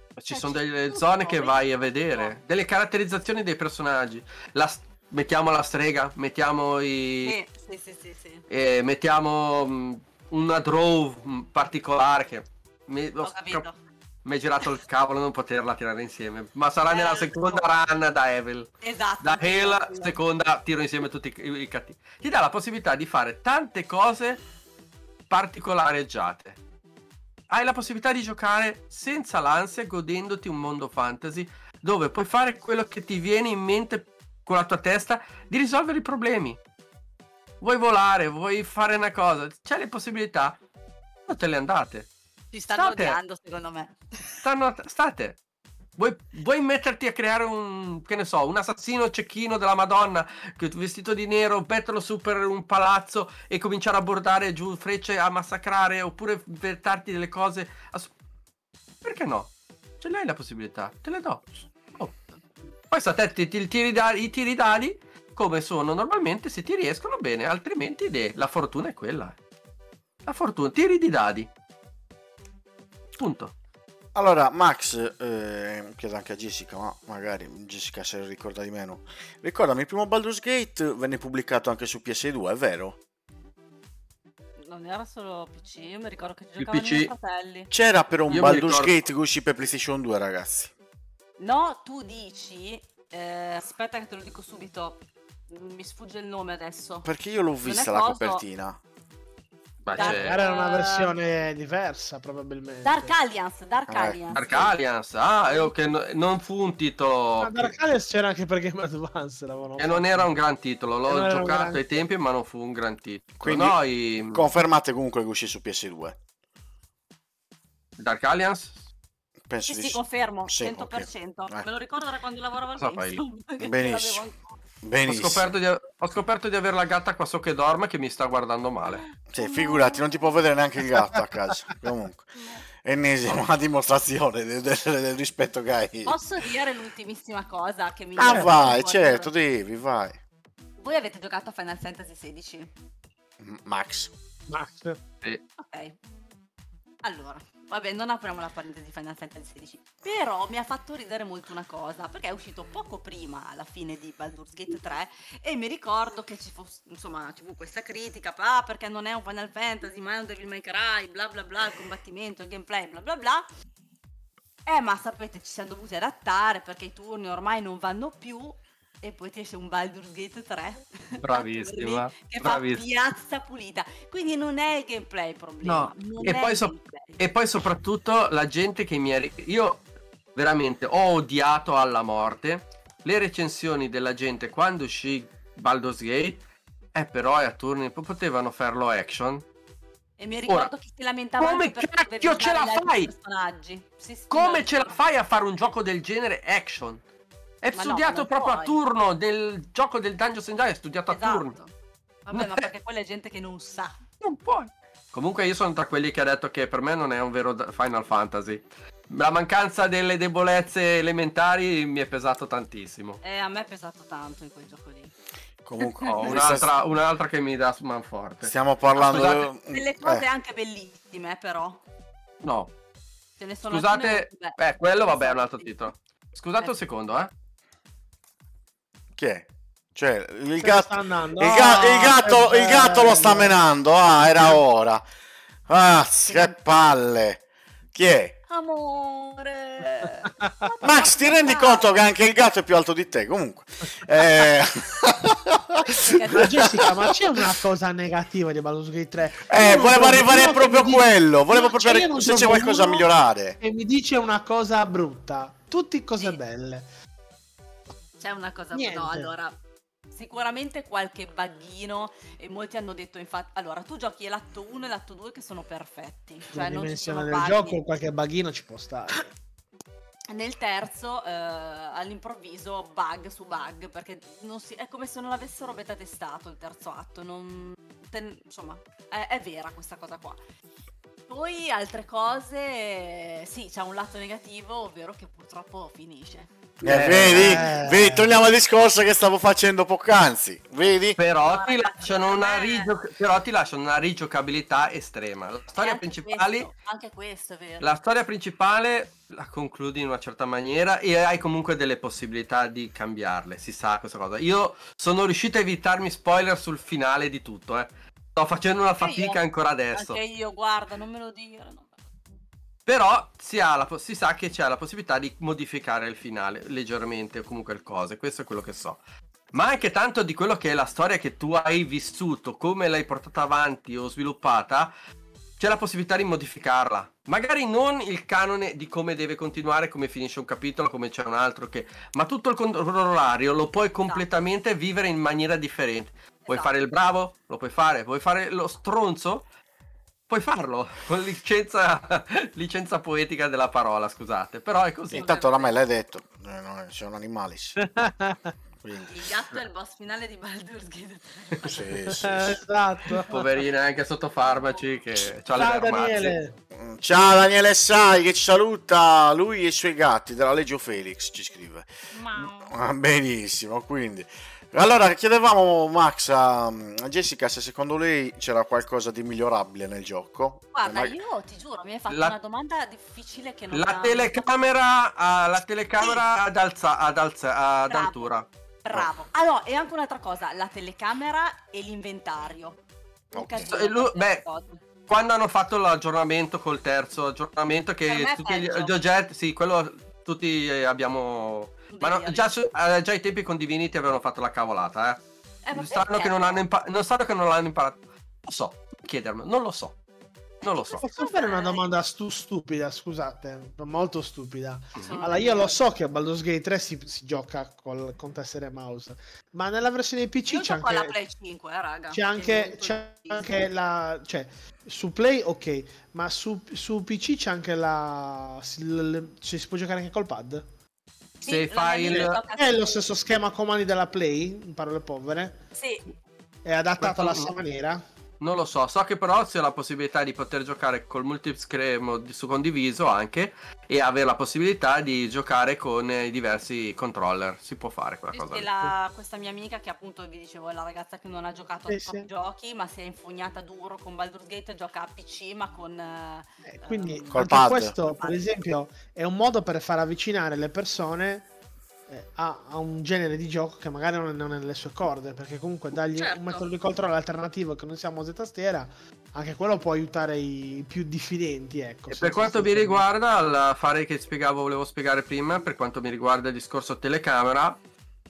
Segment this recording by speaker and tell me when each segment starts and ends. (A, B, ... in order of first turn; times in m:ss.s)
0:00.2-0:07.4 A
0:00.3-0:02.3 B
0:07.2-0:08.4 B
0:08.5-0:13.6 A
0:13.2-0:13.8 B
0:14.2-0:24.4 A
0:16.9-0:17.7 B
0:18.8-0:20.2 B
0:25.3-0:26.6 A
0:27.5-0:36.6 A
0:37.6-0:40.6 A
0:41.3-0:42.1 A
0:42.5-0:44.4 B
0:42.7-0:43.2 A
0:44.4-0:45.4 A
0:46.0-0:58.1 A
0:59.0-1:02.2 A
1:02.9-1:09.4 A
1:10.2-1:11.5 A
1:13.2-1:13.5 A
1:14.1-1:23.0 C
1:24.6-1:27.7 B
1:26.6-1:27.1 A
1:27.7-1:30.7 C
1:28.3-1:28.9 A
1:31.4-1:37.1 B
1:37.0-1:38.8 C
1:37.6-1:38.4 B
1:39.8-1:40.4 A
1:40.0-1:41.1 B
1:40.0-1:43.1 D
1:42.8-1:44.6 B
1:43.9-1:44.7 C
1:44.3-1:47.7 A
1:45.4-1:45.7 B
1:47.4-1:50.3 D
1:49.8-1:54.4 A
1:51.1-1:52.0 D
1:53.4-1:53.8 C
1:54.3-1:56.2 C
1:58.0-1:58.8 A
1:59.5-2:01.6 C
1:59.7-2:04.6 B
2:02.8-2:03.2 A
2:03.6-2:04.2 C
2:04.8-2:05.5 C
2:05.0-2:09.0 A
2:08.9-2:10.3 B
2:09.3-2:12.3 C
2:12.3-2:12.6 B
2:12.8-2:16.2 C
2:16.0-2:19.3 B
2:18.2-2:20.2 C
2:18.2-2:18.5 D
2:20.8-2:22.7 B
2:23.4-2:24.1 C
2:24.5-2:25.0 D
2:25.6-2:26.0 B
2:27.0-2:43.4 B
2:44.6-2:57.2 B
2:51.2-2:52.8 A
2:55.6-2:59.8 A
3:00.3-3:06.4 A
3:06.9-3:09.4 A
3:10.2-3:15.0 B
3:11.4-3:13.1 A
3:14.3-3:17.0 A
3:17.6-3:21.5 A
3:17.7-3:18.8 B
3:21.1-3:21.7 B
3:22.2-3:24.0 B
3:22.3-3:22.7 A
3:24.2-3:33.2 A
3:33.2-3:35.1 B
3:35.6-3:36.7 C
3:35.8-3:36.1 B
3:36.1-3:39.5 A
3:38.4-3:40.2 C
3:39.1-3:41.8 B
3:42.4-3:42.7 A
3:43.4-3:45.7 B
3:43.7-3:47.3 A
3:49.2-3:55.0 C
3:50.6-3:53.6 D
3:55.7-3:57.4 C
3:57.9-3:58.4 C
3:58.5-4:01.9 B
4:00.8-4:07.0 C
4:06.0-4:06.7 B
4:06.0-4:13.1 D
4:09.5-4:13.6 C
4:13.6-4:16.8 D
4:18.2-4:19.5 B
4:18.7-4:19.3 D
4:20.1-4:27.8 B
4:26.5-4:29.3 D
4:30.3-4:40.4 B
4:41.3-4:46.5 B
4:46.8-4:51.2 C
4:46.8-4:47.6 A
4:47.2-4:48.3 D
4:51.2-4:56.7 A
4:51.4-4:52.9 B
4:55.8-4:57.8 B
4:57.8-5:10.2 A
5:09.0-5:09.4 B
5:09.9-5:12.0 B
5:12.8-5:19.0 A
5:19.5-5:24.9 A
5:25.6-5:39.4 A
5:36.4-5:36.7 B
5:40.3-5:45.3 A
5:45.1-5:47.8 C
5:45.1-5:45.8 B
5:47.8-5:48.5 D
5:48.8-5:49.2 C
5:49.0-5:51.8 B
5:51.6-5:52.6 C
5:52.0-5:53.3 D
5:53.3-5:56.3 A
5:55.6-5:56.5 D
5:56.7-6:11.2 C
6:02.1-6:02.7 B
6:10.7-6:14.4 B
6:12.1-6:12.3 A
6:13.7-6:18.4 A
6:16.0-6:16.2 B
6:17.9-6:22.8 B
6:23.3-6:24.8 B
6:23.3-6:23.7 C
6:23.6-6:24.4 A
6:25.1-6:35.2 A
6:28.1-6:29.0 B
6:31.9-6:32.5 B
6:35.6-6:36.6 B
6:35.7-6:40.0 A
6:40.6-6:41.0 A
6:40.6-6:41.8 B
6:41.0-6:51.2 D
6:45.0-6:45.2 A
6:45.1-6:45.8 B
6:50.5-6:53.6 B
6:52.1-7:00.6 D
7:01.4-7:02.8 B
7:01.4-7:02.4 A
7:02.1-7:05.6 D
7:05.8-7:06.1 B
7:06.6-7:08.0 D
7:07.0-7:07.5 A
7:08.4-7:18.6 A
7:18.3-7:27.5 B
7:21.9-7:22.3 D
7:26.6-7:31.5 D
7:27.3-7:27.9 C
7:28.0-7:28.4 B
7:32.1-7:43.0 D
7:36.2-7:36.6 B
7:42.1-7:47.8 A